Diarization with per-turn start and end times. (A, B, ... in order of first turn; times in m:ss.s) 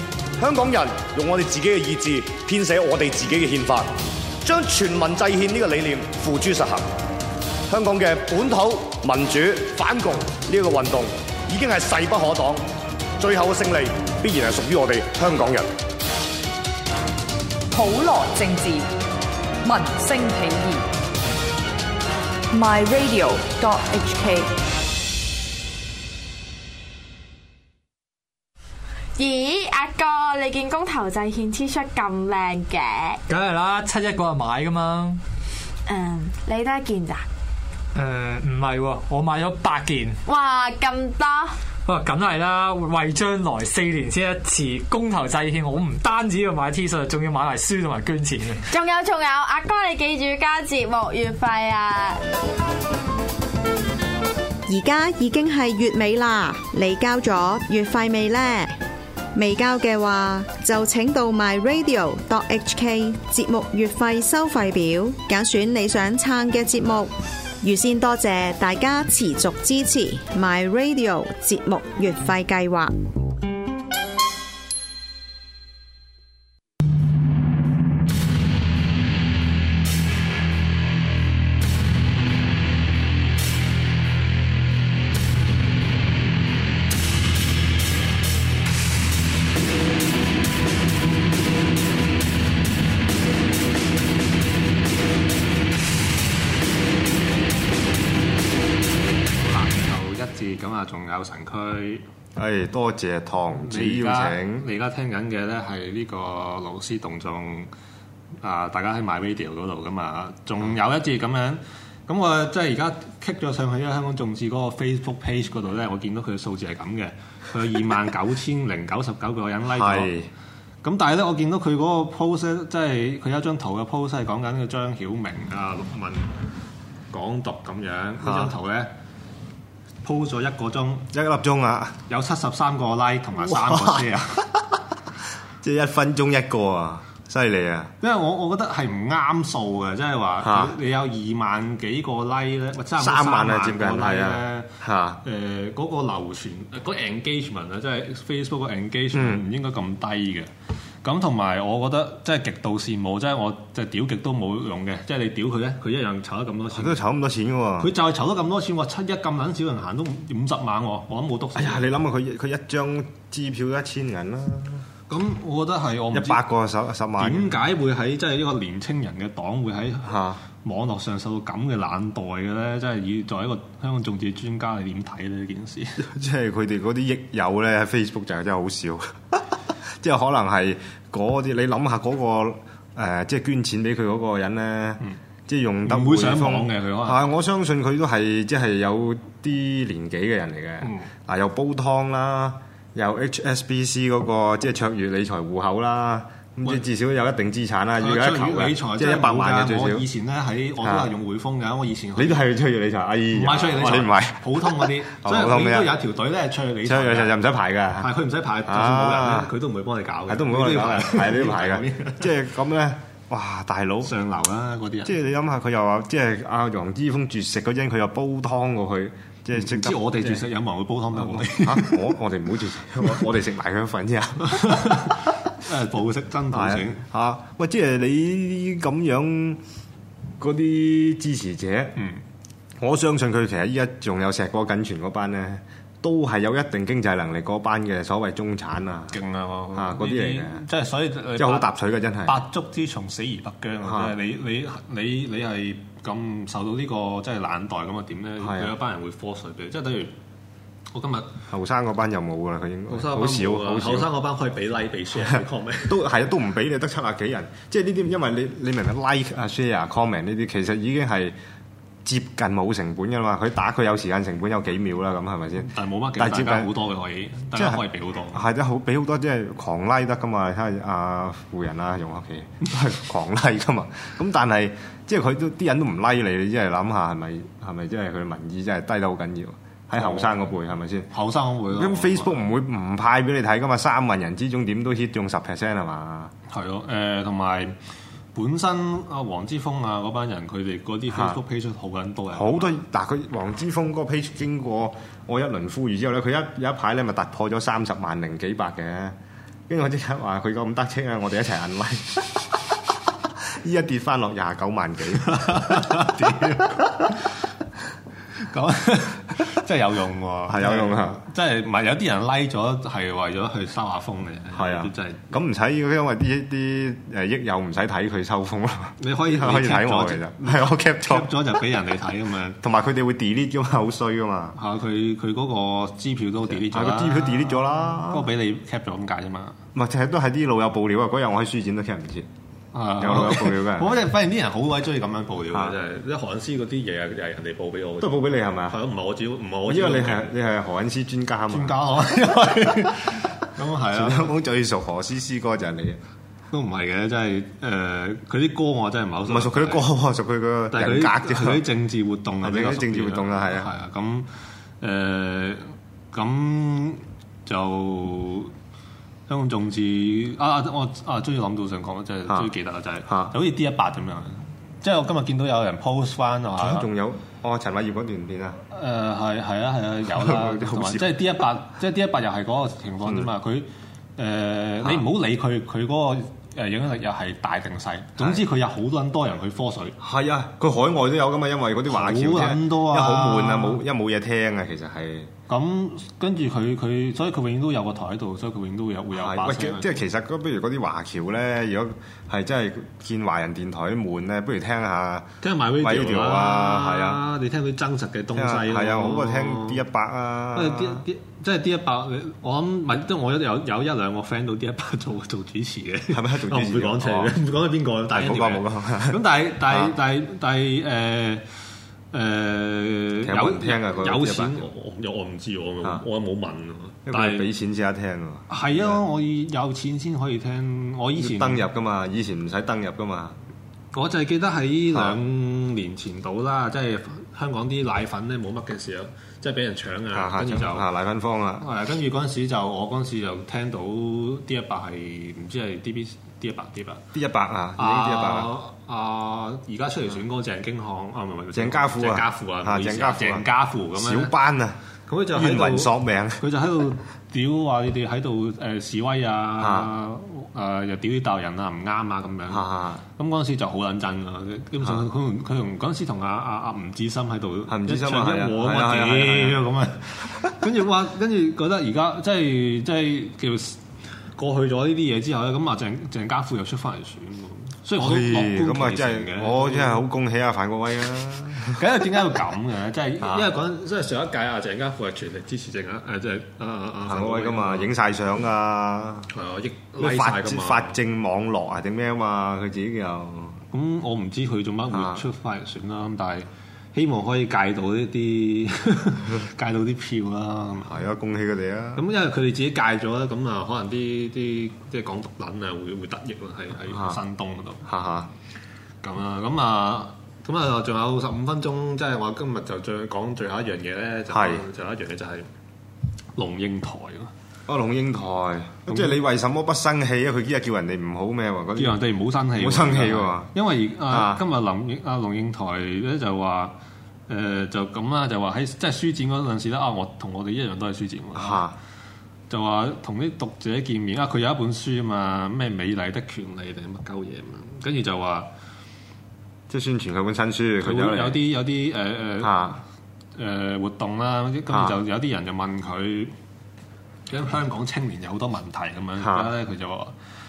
0:00.4-0:06.9 A
0:07.7-0:12.6 A
0:13.2-0:15.7 A
0:17.7-0:18.9 B
0:19.6-0:20.8 B
0:22.5-0:24.5 B
0:29.2-0:33.2 C
0:33.3-0:35.2 D
0:35.9-0:37.2 C
0:37.9-0:40.2 D
0:40.2-0:41.5 C
0:41.8-0:48.7 D
0:48.7-0:52.2 C
0:54.7-0:58.7 E
0:59.3-1:12.9 E
1:39.4-1:42.0 F
1:42.4-1:44.6 G
1:43.5-1:47.7 F
1:48.4-2:00.1 F
1:59.7-2:00.3 G
2:00.8-2:06.3 F
2:07.1-2:08.9 F
2:08.2-2:08.5 G
2:10.0-2:11.1 F
2:11.1-2:12.0 G
2:12.1-2:14.5 F
2:13.4-2:14.1 G
2:15.6-2:17.9 G
2:18.0-2:24.7 F
2:20.4-2:20.7 G
2:23.0-2:25.2 G
2:25.2-2:30.5 F
2:29.1-2:29.4 G
2:31.0-2:37.0 F
2:36.7-2:37.9 G
2:37.8-2:41.9 F
2:41.5-2:44.8 G
2:45.1-2:46.4 F
2:46.1-2:47.6 G
2:47.2-2:56.0 F
2:50.0-2:50.4 G
2:56.0-2:59.4 G
3:00.0-3:20.0 G
3:05.8-3:07.2 F
3:10.8-3:11.1 F
3:18.0-3:22.4 F
3:20.8-3:21.1 G
3:22.2-3:26.0 G
3:23.3-3:27.4 F
3:26.8-3:28.1 G
3:28.0-3:32.3 F
3:28.6-3:29.5 G
3:30.3-3:34.1 G
3:34.0-3:35.2 F
3:35.0-3:40.4 G
3:39.5-3:42.2 F
3:41.1-3:44.9 G
3:44.4-3:47.0 F
3:46.5-3:49.6 G
3:50.4-3:52.0 G
3:52.0-3:52.2 F
3:52.8-3:59.2 G
3:59.1-4:01.7 F
3:59.7-4:00.6 G
4:01.4-4:02.4 G
4:02.2-4:10.1 F
4:03.8-4:04.2 G
4:08.4-4:08.7 G
4:10.9-4:11.4 F
4:11.5-4:14.1 G
4:12.9-4:16.0 F
4:15.2-4:21.4 G
4:22.0-4:26.7 G
4:25.6-4:28.4 F
4:27.5-4:41.1 G
4:39.9-4:40.4 F
4:41.1-4:42.5 F
4:41.7-4:46.3 G
4:46.5-4:47.7 F
4:48.3-4:52.7 F
4:51.1-4:51.4 G
4:52.3-4:59.2 G
4:59.7-5:02.6 G
5:03.4-5:06.1 G
5:05.2-5:07.4 F
5:08.3-5:15.2 F
5:10.5-5:11.2 G
5:14.5-5:21.6 G
5:19.0-5:22.6 F
5:22.6-5:24.6 G
5:24.6-5:29.6 F
5:26.5-5:28.3 G
5:29.7-5:32.3 G
5:32.7-5:40.3 F
5:33.0-5:34.0 G
5:35.5-5:35.8 G
5:38.0-5:38.8 G
5:39.6-5:41.8 G
5:41.5-5:44.3 F
5:43.9-5:46.0 G
5:46.5-5:49.9 F
5:49.2-5:51.6 G
5:50.7-5:54.3 F
5:52.4-5:53.7 G
5:54.8-5:58.5 F
5:59.3-6:06.9 F
6:03.1-6:03.3 G
6:06.6-6:08.6 G
6:08.7-6:20.0 F
6:10.1-6:11.2 G
6:13.0-6:13.3 G
6:18.2-6:18.4 G
6:20.0-6:25.3 G
6:21.9-6:23.8 F
6:25.5-6:30.0 F
6:29.1-6:37.2 G
6:35.4-6:39.8 F
6:38.3-6:41.0 G
6:40.5-6:51.4 F
6:46.1-6:47.3 G
6:48.1-6:49.9 G
6:52.1-6:57.5 F
6:53.2-6:54.6 G
6:57.0-6:59.0 G
6:58.5-7:01.6 F
7:01.2-7:03.4 G
7:03.9-7:10.9 F
7:10.1-7:11.6 G
7:11.6-7:17.0 F
7:17.1-7:18.5 G
7:17.8-7:24.3 F
7:21.5-7:24.8 G
7:25.1-7:43.8 F
7:25.3-7:26.4 G
7:29.6-7:29.9 G
7:32.5-7:33.0 G
7:37.7-7:39.6 G
7:44.4-7:50.0 F
7:48.0-7:51.8 G
7:51.7-7:57.9 F
7:53.2-7:53.5 G
7:57.0-7:59.3 G
7:59.3-8:01.0 F
8:00.0-8:03.6 G
8:03.7-8:11.0 F
8:04.9-8:05.2 G
8:10.9-8:12.0 G
8:11.9-8:17.9 F
8:16.9-8:17.2 G
8:17.8-8:18.3 G
8:19.0-8:25.5 F
8:24.3-8:24.6 G
8:26.4-8:27.3 F
8:27.7-8:33.5 G
8:28.9-8:29.2 F
8:31.7-8:36.7 F
8:34.1-8:34.4 G
8:37.3-8:41.6 F
8:41.3-8:41.8 G
8:42.5-8:48.5 F
8:49.7-8:51.4 G
8:50.8-8:52.8 F
8:52.4-8:52.8 G
8:53.4-8:56.3 F
8:54.7-8:55.0 G
8:57.3-9:00.1 F
8:59.2-8:59.5 G